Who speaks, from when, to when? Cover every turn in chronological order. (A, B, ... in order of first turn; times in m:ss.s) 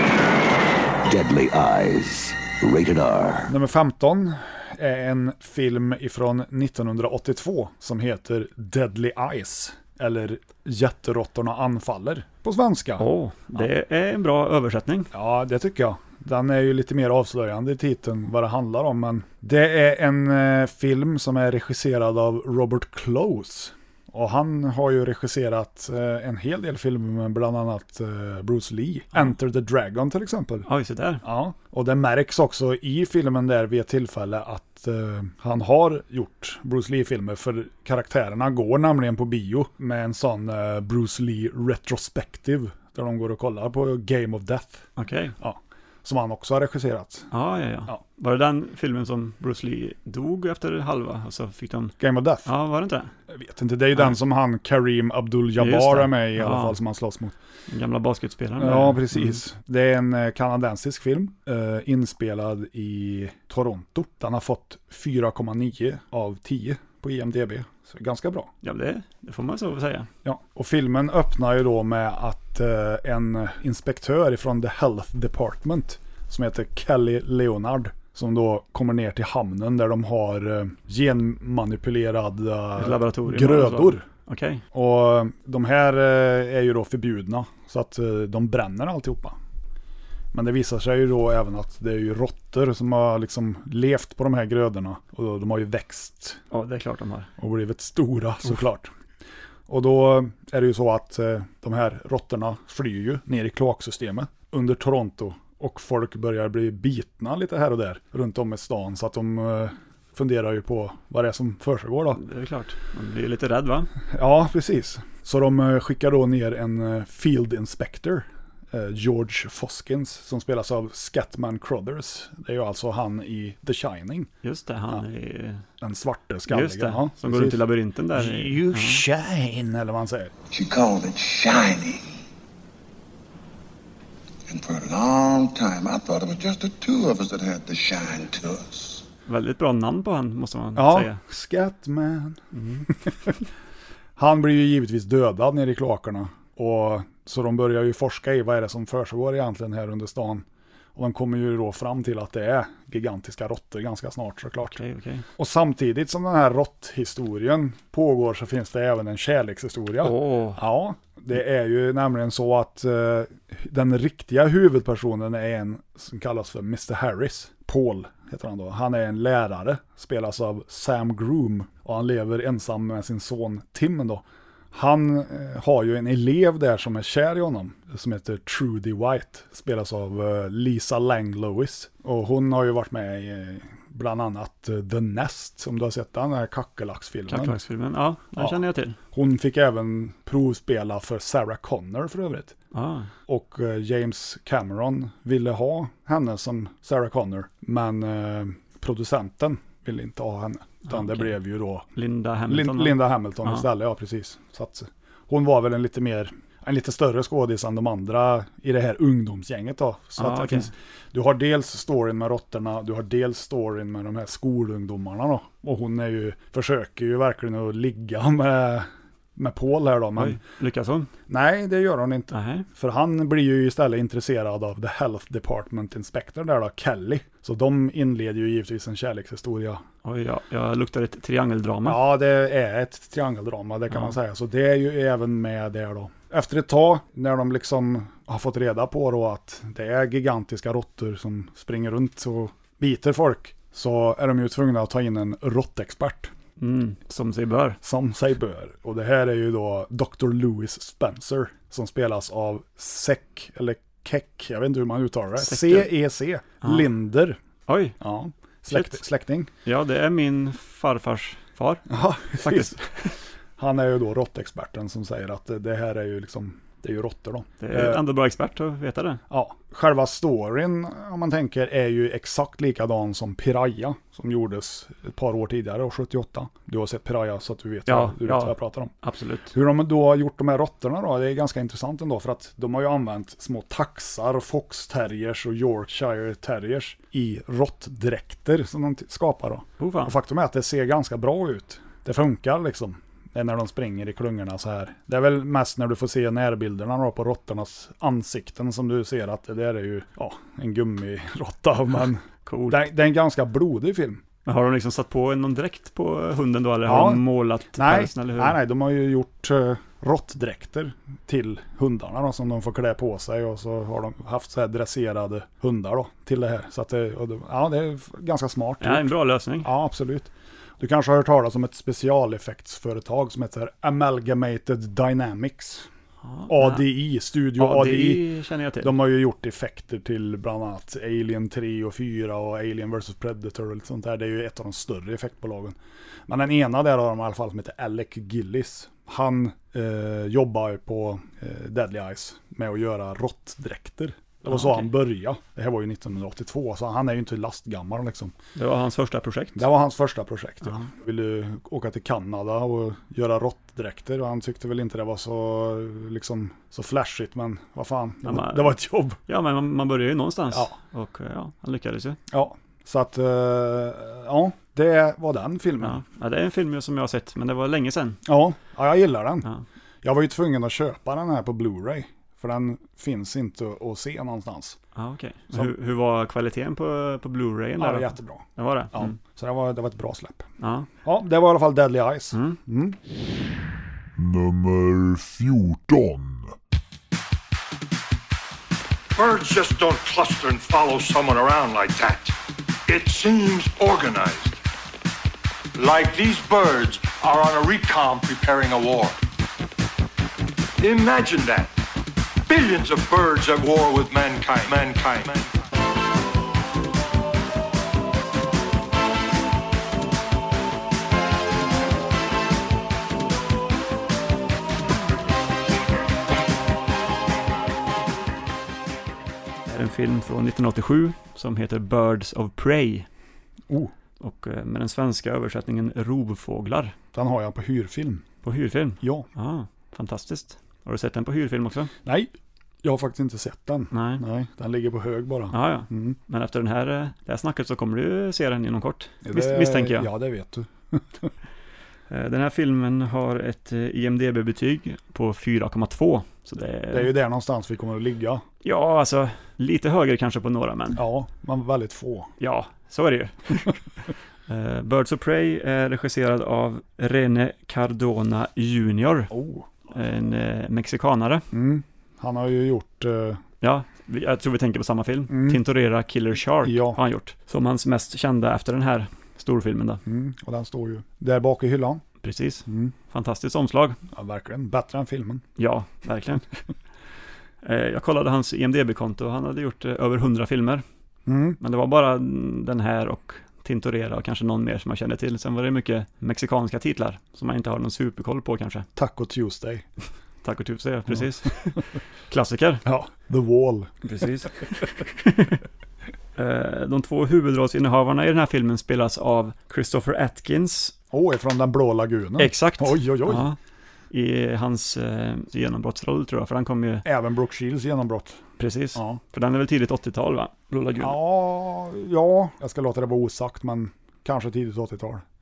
0:01.1-0:03.5 A
0:03.5-0:13.7 B
0:13.0-0:15.1 C
0:15.1-0:30.7 B
0:30.7-0:31.2 C
0:31.2-0:44.9 B
0:45.0-0:45.4 C
0:45.4-0:47.3 B
0:47.3-0:53.1 C
0:52.0-0:52.5 B
0:53.3-0:57.4 B
0:55.6-0:56.8 C
0:57.7-0:59.4 C
0:58.6-1:08.5 B
1:08.6-1:10.1 C
1:10.2-1:24.0 B
1:22.8-1:24.6 C
1:24.7-1:29.4 B
1:30.3-1:36.4 B
1:36.5-1:37.3 C
1:37.4-1:38.9 B
1:39.7-1:52.2 B
1:52.2-1:53.9 C
1:54.1-2:04.3 B
2:04.4-2:05.6 C
2:05.8-2:07.6 B
2:06.5-2:09.0 C
2:08.1-2:10.3 B
2:10.5-2:12.0 D
2:14.5-2:19.0 D
2:19.3-2:21.2 C
2:20.8-2:23.3 B
2:22.5-2:22.9 C
2:24.2-2:34.8 B
2:34.7-2:35.3 C
2:35.4-3:07.6 B
2:40.0-2:40.6 C
3:07.3-3:09.0 C
3:09.1-3:12.6 B
3:12.7-3:13.1 C
3:13.3-3:21.9 B
3:20.9-3:21.3 C
3:22.0-3:23.6 C
3:22.5-3:40.4 B
3:30.2-3:30.7 C
3:40.2-3:41.1 C
3:41.3-3:49.8 B
3:42.3-3:42.7 C
3:50.0-3:52.0 C
3:51.8-4:06.3 B
4:06.6-4:07.8 C
4:07.8-4:17.4 B
4:15.4-4:15.9 C
4:16.6-4:16.9 C
4:17.7-4:18.0 C
4:18.0-4:19.5 B
4:18.7-4:19.0 C
4:19.6-4:23.2 C
4:21.9-4:22.8 B
4:23.6-4:28.0 B
4:27.6-4:29.2 C
4:29.3-4:38.9 B
4:37.9-4:39.5 C
4:39.5-5:04.2 B
4:49.8-4:50.2 C
5:02.5-5:02.9 C
5:04.5-5:08.6 C
5:06.9-5:19.1 B
5:18.8-5:19.7 C
5:19.6-5:25.9 B
5:26.2-5:26.9 C
5:26.5-5:28.2 B
5:27.6-5:28.9 C
5:28.8-5:48.3 B
5:44.5-5:44.9 C
5:48.6-5:49.7 C
5:49.6-5:59.2 B
5:58.2-6:02.2 C
6:02.3-6:06.0 B
6:05.8-6:08.2 C
6:08.3-6:09.5 B
6:10.0-6:14.8 B
6:15.0-6:19.2 C
6:17.8-6:20.4 B
6:20.6-6:20.9 C
6:21.0-6:23.0 B
6:22.3-6:22.6 C
6:24.2-6:26.5 E
6:29.2-6:32.4 F
6:32.9-6:34.6 F
6:35.8-6:39.2 F
6:40.8-6:41.7 F
6:42.5-6:45.5 F
6:59.7-7:03.1 C
7:04.2-7:07.0 C
7:07.1-7:08.3 B
7:08.4-7:11.9 C
7:09.0-7:09.3 B
7:12.0-7:12.3 B
7:12.8-7:16.2 B
7:13.9-7:14.2 C
7:15.5-7:20.1 C
7:19.2-7:21.3 B
7:22.1-7:27.1 C
7:26.9-7:28.4 B
7:28.6-7:31.0 C
7:31.0-7:32.3 B
7:32.4-7:33.8 C
7:34.5-7:39.3 C
7:39.3-7:39.7 B
7:39.9-7:41.5 C
7:41.5-7:43.4 B
7:43.6-7:50.0 C
7:45.3-7:45.6 B
7:46.6-7:47.0 B
7:50.1-7:52.0 B
7:52.2-7:54.0 C
7:52.7-7:52.9 B
7:54.1-7:55.4 B
7:55.6-7:56.5 C
7:57.6-8:00.8 C
8:01.3-8:01.6 B
8:01.6-8:08.9 C
8:09.0-8:09.9 B
8:10.4-8:12.8 C
8:12.8-8:14.0 B
8:14.0-8:15.6 C
8:16.4-8:21.0 C
8:21.1-8:23.5 B
8:22.4-8:23.6 C
8:24.1-8:27.0 C
8:27.0-8:28.4 B
8:28.6-8:31.2 C
8:29.0-8:29.2 B
8:31.0-8:35.2 B